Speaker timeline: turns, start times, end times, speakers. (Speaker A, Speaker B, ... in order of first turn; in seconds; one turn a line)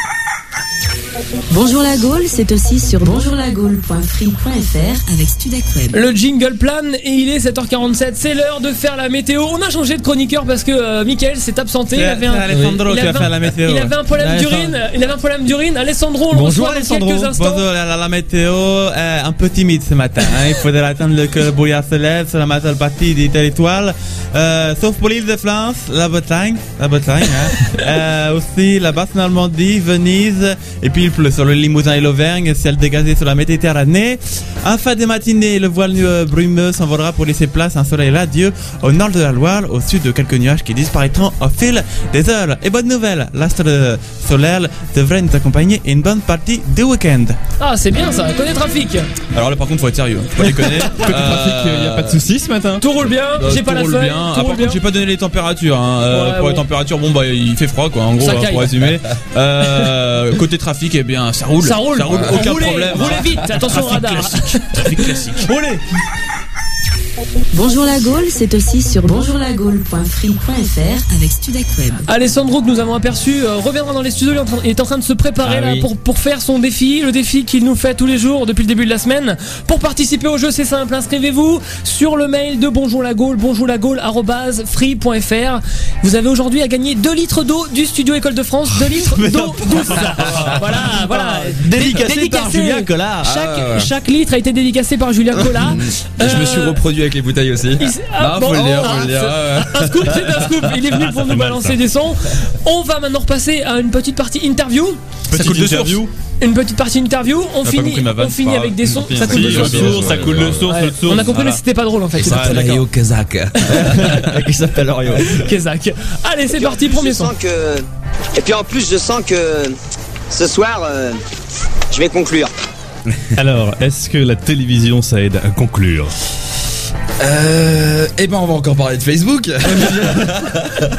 Speaker A: 1.5-6.0
Speaker B: 5.9-17.7
Speaker C: 11.9-14.7
Speaker D: 16.3-17.3
Speaker C: 17.3-47.4
Speaker B: 47.6-49.1
Speaker C: 49.3-52.2
Speaker E: 50.8-52.9
Speaker B: 52.8-54.8
Speaker C: 53.4-63.4
Speaker B: 56.1-56.6
Speaker B: 58.2-58.8
Speaker B: 61.6-65.8
Speaker F: 62.1-62.7
Speaker A: 67.5-72.1
Speaker B: 72.1-96.8
Speaker D: 75.4-75.9
Speaker E: 89.1-90.6
Speaker D: 91.0-93.3
Speaker F: 93.2-93.9
Speaker F: 95.5-100.4
Speaker B: 97.8-105.0
Speaker E: 105.3-106.1
Speaker C: 105.3-106.0
Speaker B: 106.4-110.1
Speaker C: 107.6-110.2
Speaker E: 109.0-111.6
Speaker F: 109.3-110.7
Speaker B: 110.6-112.8
Speaker F: 112.2-114.2
Speaker E: 112.3-112.7
Speaker D: 113.7-115.4
Speaker B: 115.2-117.3
Speaker G: 116.5-117.8
Speaker G: 118.3-119.8
Speaker G: 120.3-121.2
Speaker G: 121.9-122.5
Speaker E: 123.4-126.1
Speaker F: 127.2-130.9
Speaker B: 129.7-130.1